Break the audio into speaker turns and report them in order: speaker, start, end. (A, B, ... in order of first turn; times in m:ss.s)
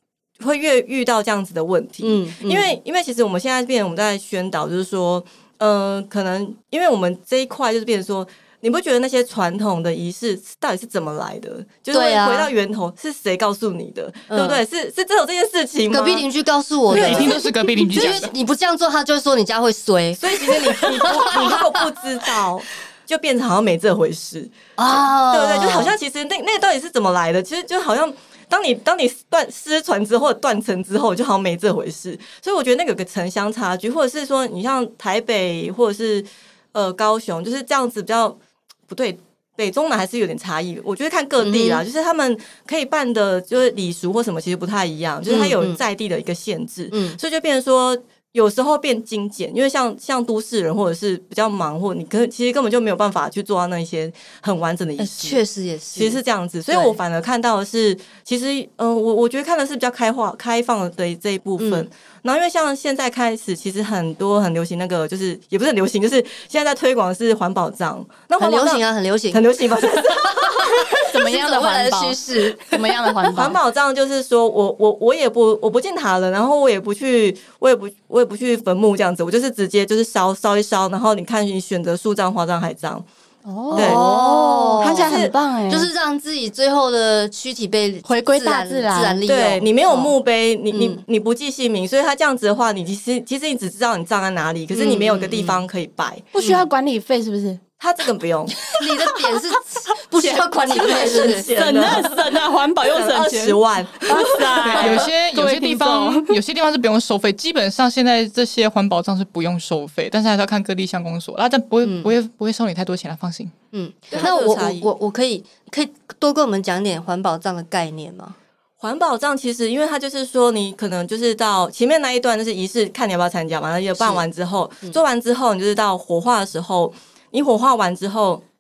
0:00.4-0:16.3 A
0:02.0-0:02.8 B
0:11.9-0:12.5 B
0:14.3-0:14.6 B
0:15.9-0:17.4 B
0:16.9-0:17.4 A
0:16.9-0:18.3 C
0:17.9-0:21.7 B
0:20.2-0:55.4 A
0:24.8-0:26.0 B
0:41.4-0:41.8 B
0:45.3-0:45.8 B
0:46.9-0:47.2 B
0:55.0-0:57.0 B
0:56.0-1:10.9 A
1:01.6-1:01.9 B
1:08.4-1:13.1 B
1:11.1-1:13.6 D
1:13.3-1:23.1 A
1:23.5-1:25.9 D
1:23.7-1:25.2 B
1:23.7-1:24.0 A
1:24.8-1:25.4 A
1:25.7-1:30.1 B
1:28.1-1:29.2 D
1:29.3-1:36.3 A
1:30.7-1:31.0 B
1:34.7-1:35.6 B
1:36.3-1:37.6 D
1:36.4-1:36.6 B
1:37.8-1:38.6 A
1:38.8-1:41.5 B
1:38.8-1:39.4 D
1:40.2-1:46.4 D
1:40.7-1:45.1 A
1:44.6-1:53.5 C
1:51.8-1:52.1 B
1:53.7-1:58.4 B
1:54.1-1:54.9 A
1:58.8-2:08.4 A
2:04.0-2:04.2 B